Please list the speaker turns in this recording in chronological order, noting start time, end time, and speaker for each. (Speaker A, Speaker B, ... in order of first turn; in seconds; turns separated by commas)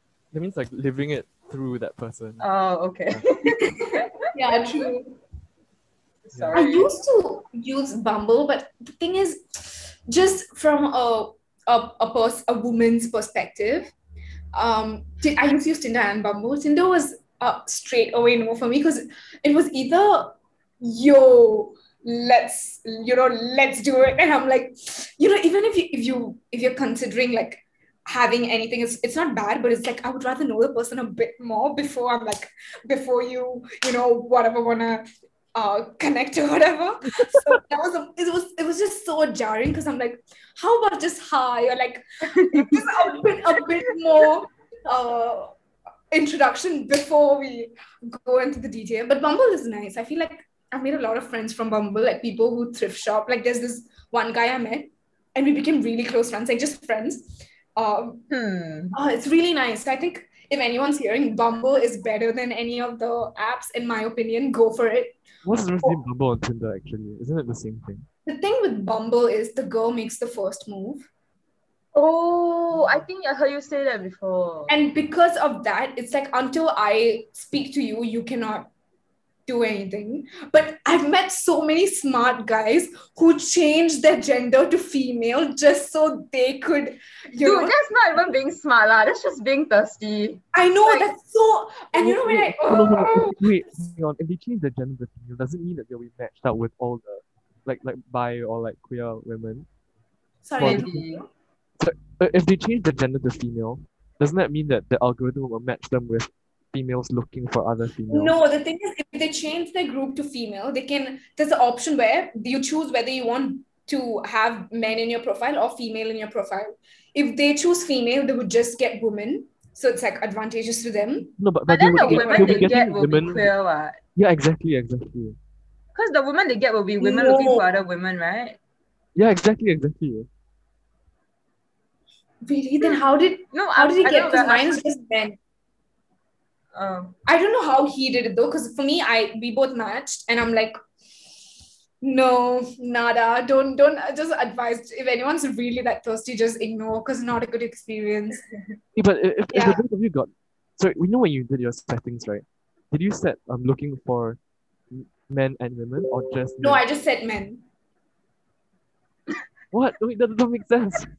Speaker A: 0.3-2.5, Speaker B: 2.4-4.1, Speaker C: 3.5-5.2, Speaker B: 6.2-6.9, Speaker A: 6.3-6.6, Speaker C: 6.5-13.9, Speaker C: 14.5-45.5, Speaker C: 46.1-58.2, Speaker B: 58.3-59.0, Speaker C: 58.9-65.2, Speaker A: 65.5-68.1, Speaker C: 68.3-71.1, Speaker B: 72.0-74.8, Speaker A: 72.7-73.0, Speaker C: 74.7-78.7, Speaker C: 79.5-87.8, Speaker B: 87.4-91.1, Speaker C: 90.5-93.5, Speaker A: 92.0-99.7, Speaker C: 100.5-101.3, Speaker A: 100.6-101.0, Speaker B: 100.6-101.2, Speaker A: 101.8-108.3, Speaker C: 108.1-122.7, Speaker A: 121.4-123.5, Speaker B: 121.7-124.0, Speaker A: 124.2-125.4, Speaker B: 126.0-128.6, Speaker C: 127.0-127.7, Speaker A: 129.2-130.3, Speaker C: 132.4-135.4, Speaker B: 133.5-134.8, Speaker B: 136.7-137.2, Speaker C: 137.3-140.8, Speaker C: 142.0-148.4, Speaker A: 148.9-154.4, Speaker C: 149.5-149.8, Speaker A: 154.9-156.8, Speaker C: 156.6-157.6, Speaker A: 159.7-161.1